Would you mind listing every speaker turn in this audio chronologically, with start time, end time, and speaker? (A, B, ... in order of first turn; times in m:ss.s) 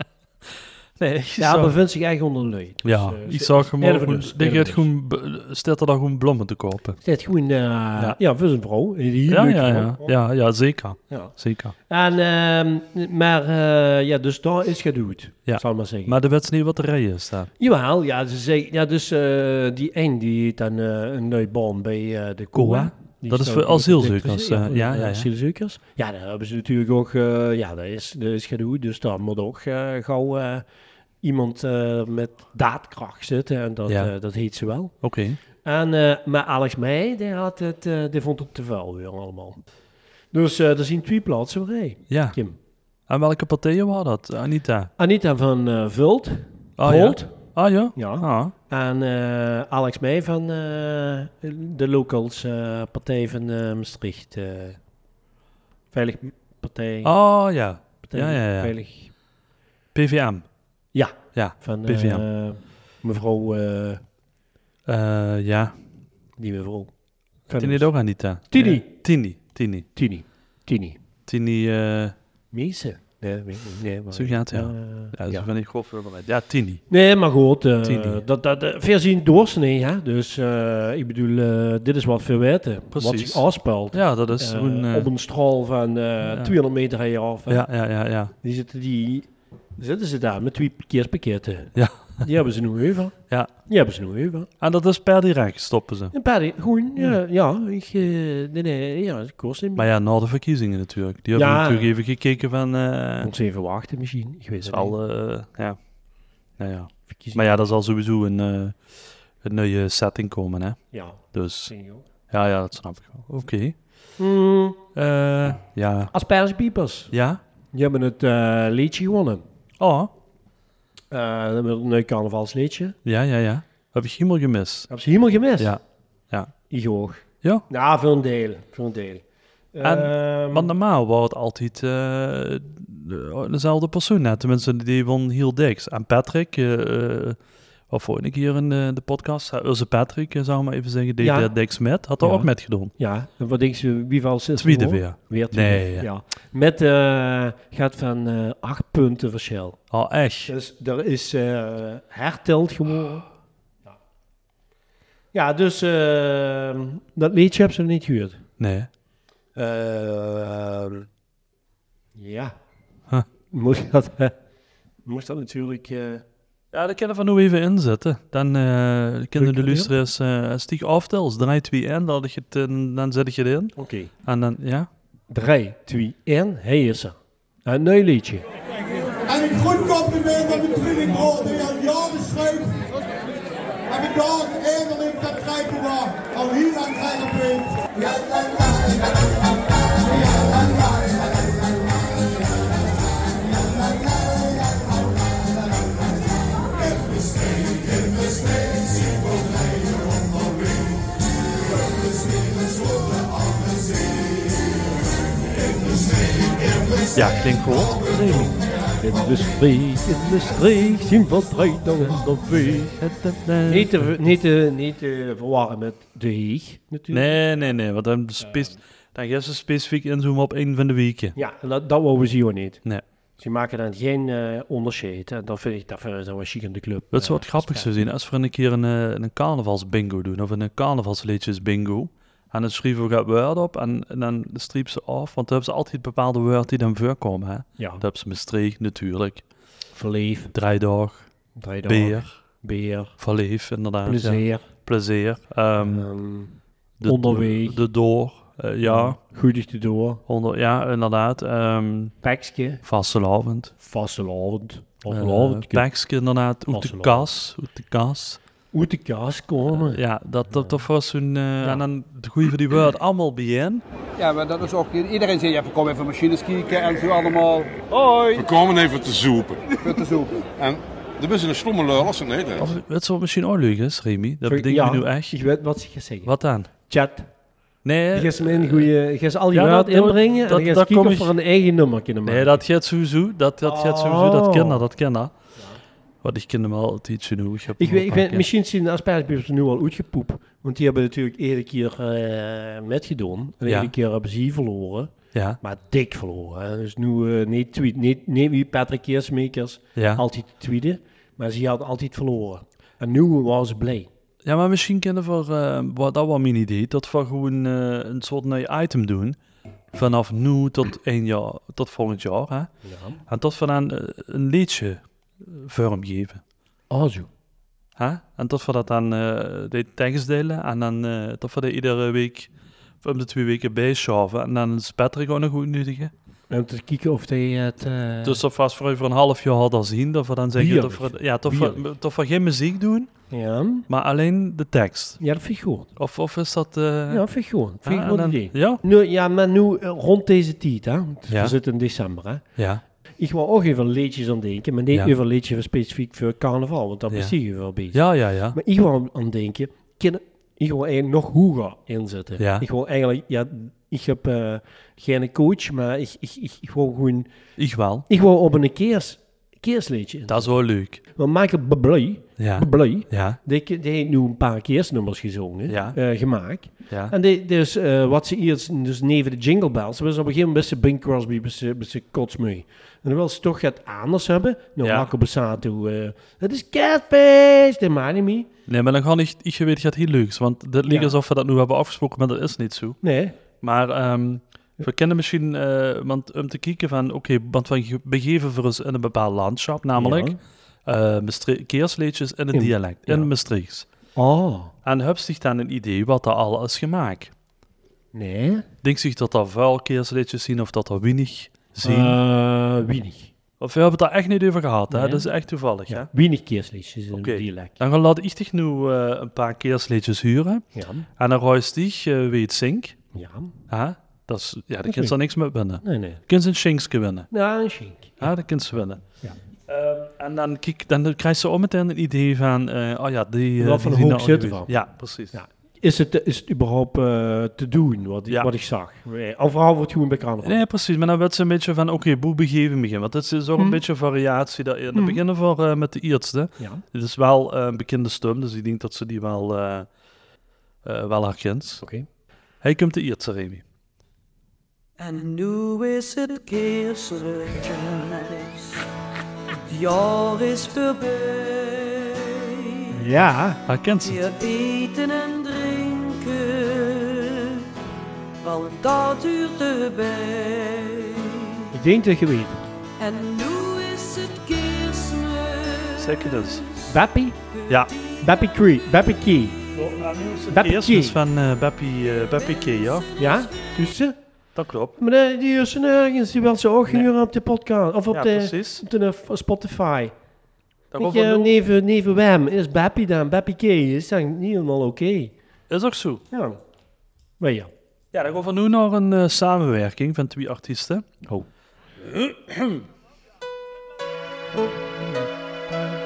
0:01.0-0:01.7 A
0:01.4-0:04.9 B
0:02.8-0:07.0 A
0:07.0-0:10.2 B
0:09.3-0:11.7 A
0:11.1-0:11.3 B
0:11.9-0:16.2 B
0:15.5-0:17.5 A
0:17.6-0:30.6 B
0:22.5-0:25.3 A
0:31.2-0:34.9 B
0:35.0-0:35.4 A
0:35.6-0:39.6 B
0:40.3-0:42.6 B
0:42.1-0:42.4 A
0:43.1-0:44.9 A
0:45.0-0:54.8 B
0:46.8-0:48.5 A
0:55.9-0:57.1 B
0:57.0-0:58.7 A
0:58.1-0:59.1 B
0:59.9-1:00.4 A
1:00.9-1:04.0 B
1:01.3-1:02.2 A
1:04.9-1:05.7 A
1:06.4-1:06.9 B
1:07.5-1:07.9 B
1:07.6-1:09.8 A
1:08.5-1:08.9 B
1:09.9-1:11.0 B
1:11.3-1:12.1 A
1:12.5-1:15.5 B
1:14.1-1:16.8 A
1:16.9-1:27.7 B
1:17.8-1:18.2 A
1:22.9-1:25.1 A
1:26.3-1:26.5 A
1:27.5-1:28.3 A
1:28.4-1:34.5 B
1:31.8-1:32.2 A
1:34.6-1:36.1 A
1:36.1-1:39.9 B
1:39.8-1:43.3 A
1:41.3-1:41.9 B
1:43.2-1:45.0 B
1:44.6-1:45.8 A
1:46.6-1:50.8 A
1:47.1-1:47.5 B
1:50.9-1:52.0 B
1:51.3-1:51.7 A
1:52.3-1:53.8 A
1:54.2-1:54.8 B
1:55.0-1:56.1 A
1:56.1-1:57.1 B
1:57.1-1:57.4 A
1:57.7-1:59.4 B
1:59.8-2:00.1 A
2:01.1-2:03.0 B
2:03.0-2:04.9 A
2:04.9-2:05.8 B
2:06.7-2:10.7 B
2:09.8-2:17.4 A
2:17.9-2:22.9 A
2:21.2-2:21.5 B
2:22.2-2:29.8 B
2:24.6-2:26.1 A
2:29.9-2:30.5 A
2:30.5-2:33.3 B
2:35.3-2:38.4 B
2:38.6-2:38.9 A
2:39.5-2:41.1 B
2:42.1-2:42.5 B
2:43.5-2:44.3 B
2:45.0-2:46.2 B
2:46.7-2:53.7 A
2:49.4-2:49.9 B
2:53.8-2:54.1 B
2:54.2-2:54.9 A
2:55.3-2:58.4 B
2:59.3-3:02.9 C
3:03.9-3:09.3 C
3:10.0-3:11.3 C
3:27.1-3:28.6 A
3:29.0-3:32.9 B
3:32.3-3:34.1 A
3:33.6-3:37.3 B
3:37.1-3:41.3 A
3:38.4-3:38.7 B
3:41.3-3:42.8 B
3:43.4-3:48.1 B
3:47.1-3:59.4 A
3:57.8-3:58.0 B
3:59.9-4:00.5 B
4:00.5-4:01.3 A
4:01.6-4:03.1 B
4:01.8-4:02.3 A
4:03.2-4:06.1 A
4:04.0-4:04.6 B
4:05.8-4:07.8 B
4:07.0-4:09.2 A
4:08.8-4:10.2 B
4:10.3-4:12.1 A
4:12.2-4:12.8 B
4:12.8-4:13.7 A
4:13.8-4:15.9 B
4:15.1-4:18.4 A
4:16.7-4:17.3 B
4:18.7-4:20.8 B
4:19.7-4:23.8 A
4:24.2-4:28.5 D
4:28.3-4:32.7 E
4:29.8-4:30.4 D
4:32.6-4:35.4 A
4:34.4-4:36.3 B
4:36.2-4:36.7 A
4:36.9-4:37.3 B
4:37.8-4:38.9 A
4:38.1-4:42.6 B
4:39.5-4:41.3 A
4:42.2-4:45.3 A
4:43.6-4:44.8 B
4:46.2-4:48.4 A
4:47.8-5:04.1 B
4:53.6-4:53.9 A
4:55.3-4:55.6 A
5:00.0-5:00.2 A
5:04.4-5:09.4 A
5:09.9-5:12.7 A
5:12.8-5:13.2 B
5:13.3-5:16.4 A
5:16.9-5:17.3 B
5:18.0-5:22.5 A
5:23.0-5:26.1 A
5:26.5-5:28.4 B
5:28.2-5:33.1 A
5:30.5-5:31.8 B
5:33.3-5:33.9 B
5:33.9-5:35.2 A
5:35.2-5:35.9 B
5:36.0-5:37.2 A
5:37.1-5:42.4 B
5:37.8-5:38.8 A
5:42.6-5:42.8 A
5:43.2-5:57.3 B
5:47.9-5:48.6 A
5:52.4-5:52.6 A
5:57.6-5:58.0 A
5:58.1-6:00.5 B
6:00.3-6:01.0 A
6:01.1-6:18.5 B
6:02.4-6:03.4 A
6:05.7-6:06.0 A
6:06.9-6:07.1 A
6:14.8-6:15.1 A
6:18.7-6:23.0 A
6:20.9-6:21.2 B
6:23.0-6:23.4 B
6:23.6-6:33.8 A
6:30.0-6:30.4 B
6:32.5-6:33.3 B
6:34.1-6:34.7 B
6:34.8-6:37.3 A
6:38.1-6:38.6 B
6:38.8-6:42.2 A
6:41.8-6:43.3 B
6:43.6-6:46.1 A
6:44.9-6:45.3 B
6:45.9-6:47.8 B
6:47.1-6:50.6 A
6:50.7-6:51.1 B
6:51.2-6:53.0 A
6:53.1-6:53.5 B
6:53.7-6:57.3 A
6:54.8-6:55.2 B
6:55.8-6:56.2 B
6:57.3-6:58.3 B
6:58.2-6:59.0 A
6:59.7-7:05.3 A
7:03.6-7:04.8 B
7:05.3-7:10.6 B
7:10.4-7:19.9 A
7:14.9-7:15.2 B
7:20.8-7:21.8 A
7:21.8-7:22.1 B
7:22.6-7:23.6 A
7:25.0-7:28.8 F
7:29.7-7:33.0 F
7:32.9-7:33.6 B
7:33.7-7:34.2 A
7:34.0-7:37.6 F
7:38.4-7:41.7 F
7:41.7-7:42.6 B
7:43.0-7:46.9 F
7:46.0-7:46.6 A
7:46.9-7:47.4 B
7:47.7-7:48.2 F
7:48.2-7:49.6 B
7:49.7-7:53.1 A
7:50.5-7:51.2 B
7:52.4-7:53.6 F
7:53.2-7:54.2 B
7:54.5-7:54.9 A
7:55.0-8:00.1 B
7:58.1-7:58.8 A
8:00.9-8:01.6 A
8:00.9-8:05.3 B
8:05.7-8:06.2 A
8:06.3-8:06.6 B
8:07.4-8:07.7 B
8:08.1-8:11.0 A
8:12.1-8:12.7 A